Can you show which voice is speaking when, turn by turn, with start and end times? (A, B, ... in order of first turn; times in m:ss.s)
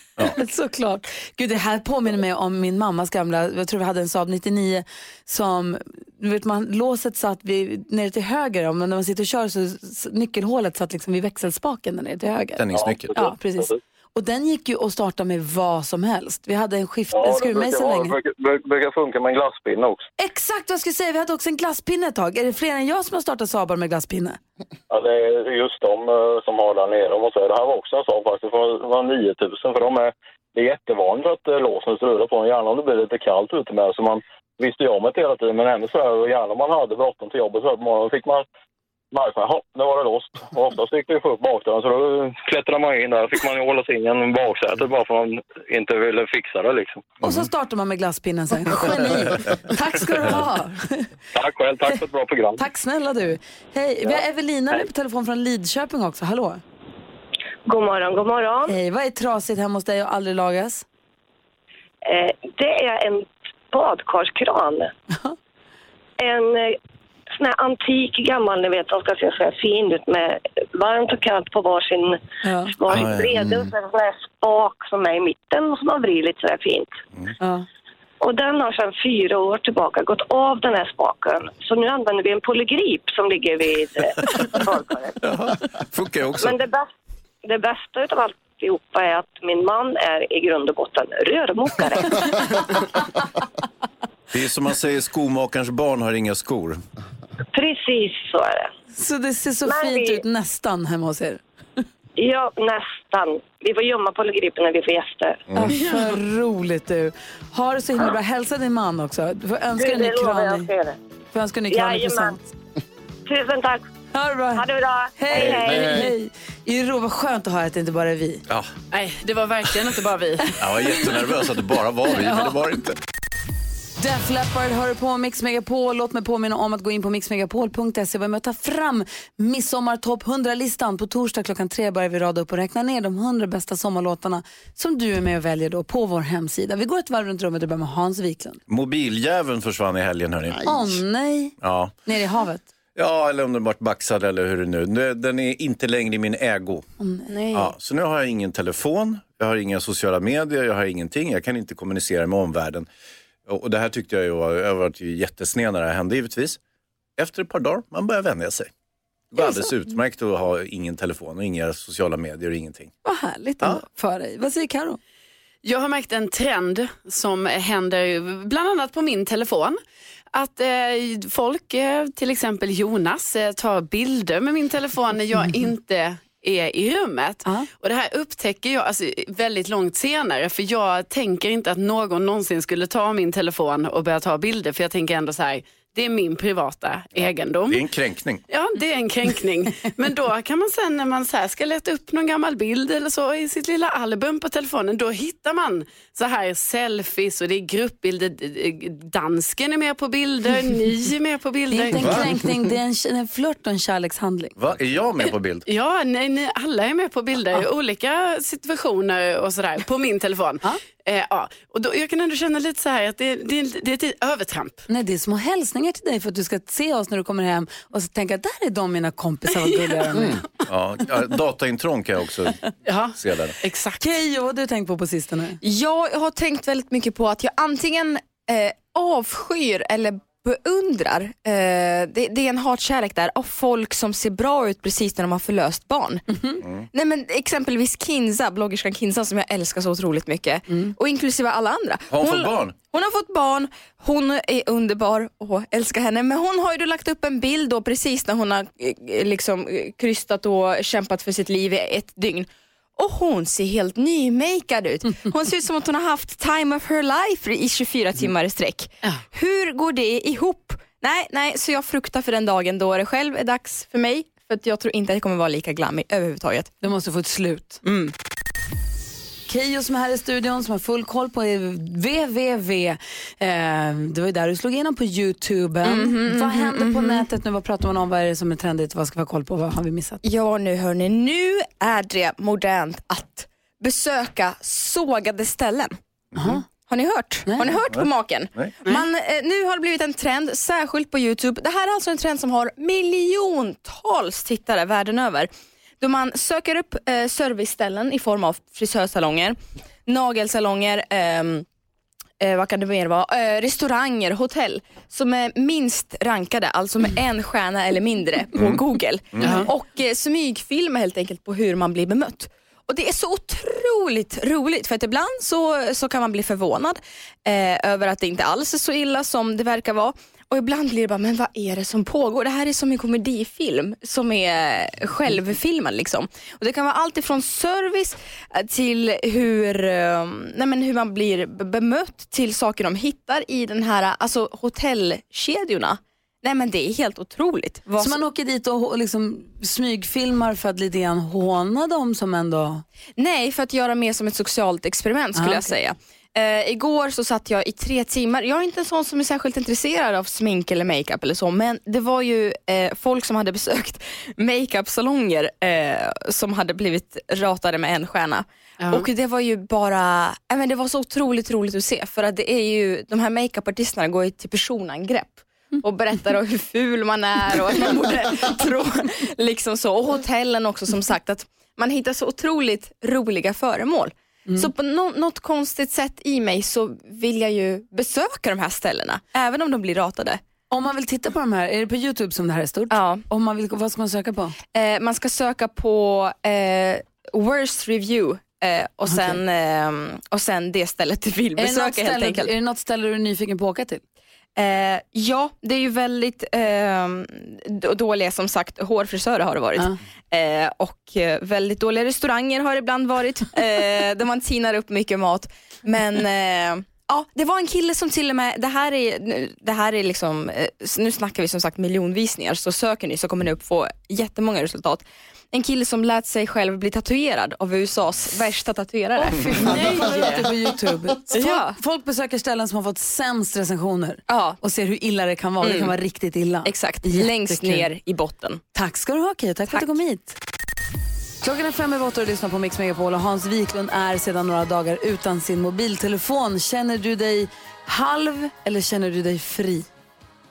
0:00.2-0:18.1 A
0:12.6-0:13.2 B
0:12.7-0:13.8 C
0:17.1-0:20.0 C
0:20.2-0:24.4 A
0:24.9-0:38.4 C
0:39.1-0:47.2 C
0:47.2-0:51.1 A
0:51.3-0:52.6 C
0:52.6-0:56.6 A
0:57.6-0:58.8 D
0:58.7-1:00.8 A
1:02.0-1:04.9 D
1:06.2-1:06.7 D
1:07.3-1:12.2 D
1:12.4-1:12.7 A
1:12.7-1:16.9 D
1:12.9-1:13.7 B
1:17.4-1:17.6 A
1:18.2-1:25.1 D
1:24.2-1:24.6 B
1:25.2-1:26.6 B
1:26.4-1:26.9 D
1:27.4-1:32.8 D
1:34.3-1:36.8 B
1:37.5-1:38.7 D
1:38.9-1:41.4 A
1:39.6-1:40.2 D
1:42.2-1:45.4 D
1:45.5-1:45.8 B
1:45.5-1:50.7 A
1:49.8-1:51.0 D
1:51.3-1:52.4 A
1:51.7-1:52.4 D
1:53.2-1:53.8 D
1:54.1-1:54.6 A
1:54.5-1:56.1 D
1:55.2-1:58.4 A
1:55.3-1:56.0 B
1:58.9-2:00.4 E
2:00.6-2:03.0 B
2:02.1-2:02.5 A
2:04.0-2:18.6 A
2:18.7-2:21.0 B
2:20.6-2:22.7 A
2:21.6-2:21.9 B
2:23.0-2:26.8 B
2:27.0-2:27.3 A
2:27.3-2:27.7 F
2:27.5-2:32.8 B
2:33.4-2:36.6 B
2:37.2-2:38.7 B
2:39.3-2:42.9 B
2:43.0-2:45.0 A
2:45.6-2:49.8 E
2:50.3-3:07.8 E
3:07.1-3:08.4 B
3:08.5-3:22.1 E
3:21.7-3:24.6 A
3:21.9-3:22.3 B
3:24.6-3:25.6 B
3:25.6-3:34.8 E
3:34.9-3:40.4 A
3:40.3-3:43.6 B
3:42.8-3:44.0 E
3:44.0-3:45.6 A
3:45.6-3:56.2 F
3:56.3-3:56.6 A
3:56.9-4:26.7 F
4:02.1-4:02.8 B
4:26.8-4:27.8 A
4:27.8-4:28.1 F
4:29.5-4:40.2 A
4:35.8-4:37.2 F
4:40.2-4:46.0 F
4:46.4-4:46.6 A
4:46.7-4:55.5 F
4:47.5-4:47.7 A
4:47.9-4:48.8 B
4:56.0-5:01.6 F
5:02.4-5:38.2 F
5:08.5-5:08.8 B
5:09.3-5:09.6 B
5:37.9-5:42.8 A
5:43.2-6:20.4 F
5:45.4-5:45.7 A
6:20.7-6:24.6 A
6:22.9-6:23.2 F
6:24.7-6:32.5 F
6:31.6-6:34.0 A
6:34.6-7:00.2 F
6:59.2-7:07.9 A
7:01.3-7:01.7 F
7:04.3-7:04.6 F
7:05.6-7:05.9 F
7:06.6-7:08.6 F
7:08.7-7:10.4 A
7:11.4-7:19.8 A